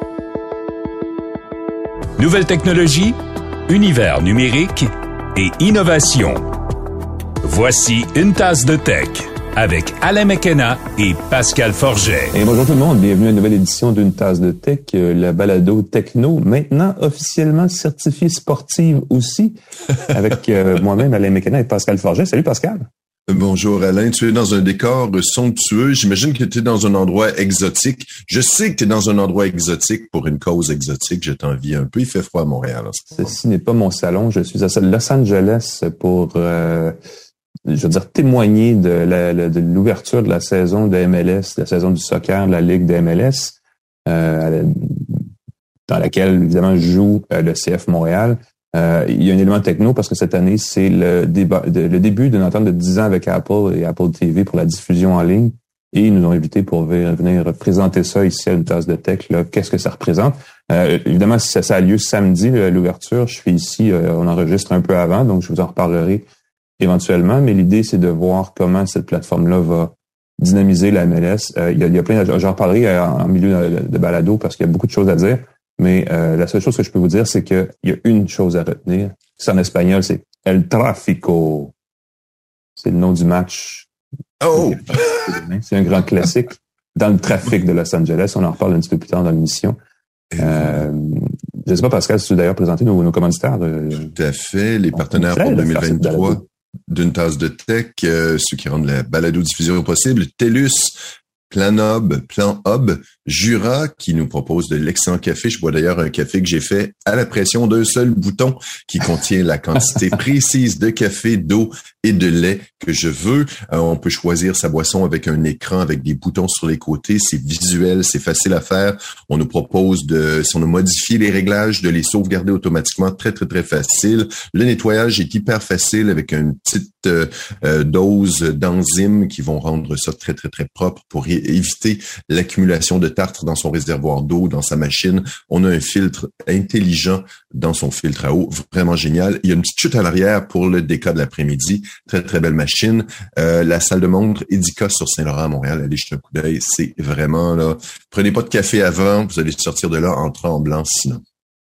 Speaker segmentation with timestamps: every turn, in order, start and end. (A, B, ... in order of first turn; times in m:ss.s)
0:02.2-0:03.2 A
0:03.7-0:06.4 A
0:07.4-0:12.3 A
0:12.3-0:19.6 B
0:20.1-0:22.9 B
0:23.3-0:33.3 C
0:33.2-0:36.9 B
0:37.7-0:45.2 B
0:45.9-1:06.2 B
1:06.8-1:21.7 B
1:22.8-1:23.9 B
1:24.4-1:25.3 C
1:24.5-1:29.8 B
1:30.3-1:30.8 C
1:30.4-1:34.1 B
1:34.1-1:41.0 C
1:34.9-1:36.4 B
1:41.5-2:31.2 C